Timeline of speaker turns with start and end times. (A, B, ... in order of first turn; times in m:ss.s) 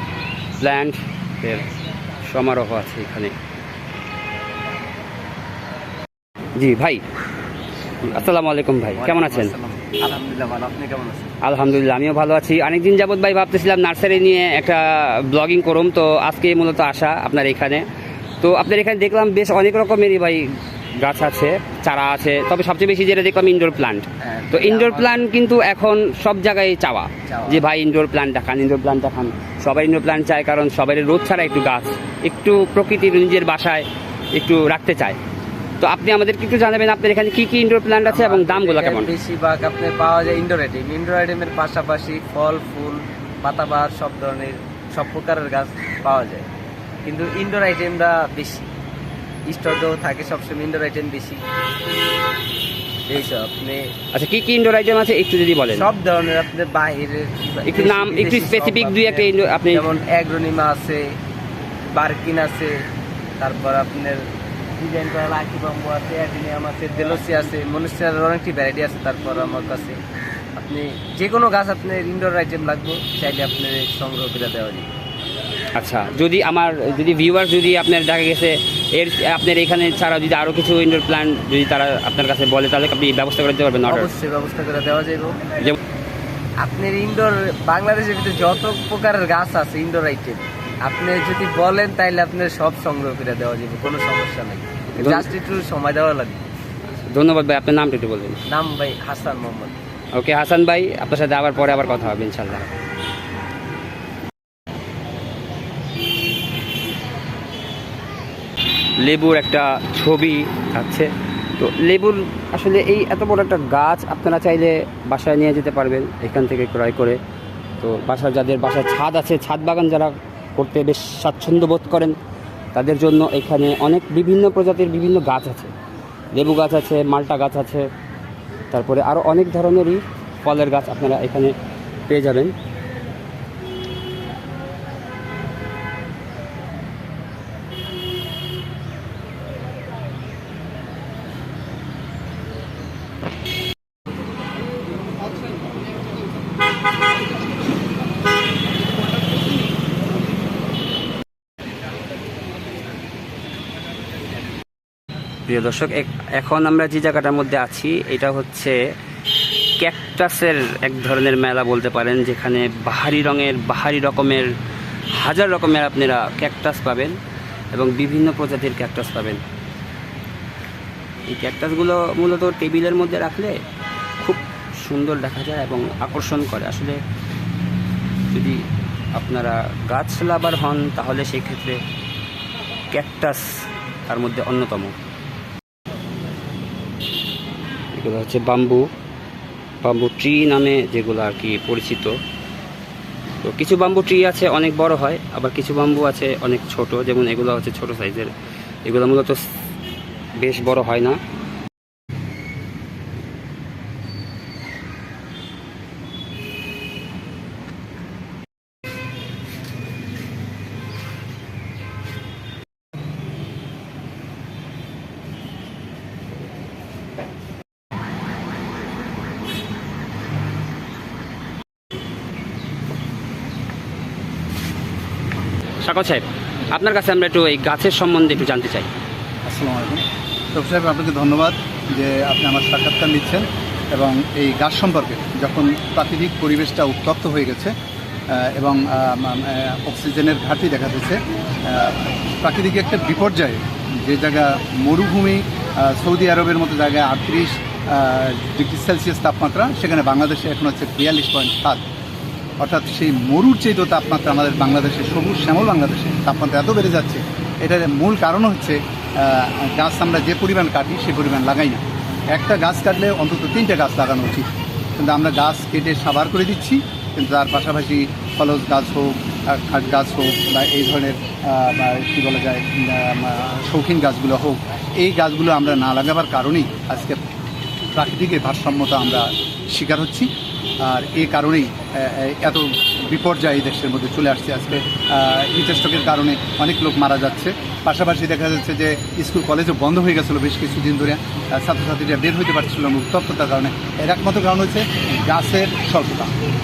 0:00.6-0:01.7 A
0:02.2-0:03.4 A
0:06.6-0:07.0 A
0:08.0-0:09.5 A
0:09.0-0:11.4 B
0:11.4-0:17.8 A
0:18.4-0:35.2 A
0:24.2-0:25.2 B
0:27.3-0:27.6 B
0:35.8-0:39.1 A
0:38.0-0:46.5 B
0:47.0-0:48.7 B
0:49.5-0:51.4 B
0:53.1-0:53.9 B
0:54.1-0:55.8 A
0:55.7-1:01.1 B
0:57.6-0:59.9 A
1:01.9-1:02.8 B
1:03.4-1:10.0 B
1:10.6-1:14.9 B
1:15.8-1:24.1 A
1:23.8-1:25.4 B
1:26.6-1:36.4 B
1:35.0-1:35.3 A
1:37.1-1:38.4 A
1:38.5-1:39.7 B
1:40.2-1:42.7 A
1:49.0-1:57.2 A
1:57.8-2:02.2 A
2:02.7-2:05.7 A
2:06.3-2:07.9 A
2:08.7-2:11.5 A
2:12.1-2:12.5 A
2:35.5-2:38.8 A
2:39.8-2:44.5 A
2:45.2-2:47.2 A
2:47.7-2:49.4 A
2:51.3-2:53.6 A
2:54.2-2:57.0 A
2:58.3-2:58.6 A
2:59.2-3:01.8 A
3:02.9-3:03.5 A
3:04.1-3:05.0 A
3:07.9-3:08.9 A
3:09.8-3:12.2 A
3:13.4-3:18.3 A
3:18.8-3:19.4 A
3:20.4-3:21.2 A
3:45.8-3:48.9 A
3:49.4-3:57.7 C
3:58.3-4:11.8 C
4:12.6-4:37.2 C
4:37.9-4:56.3 C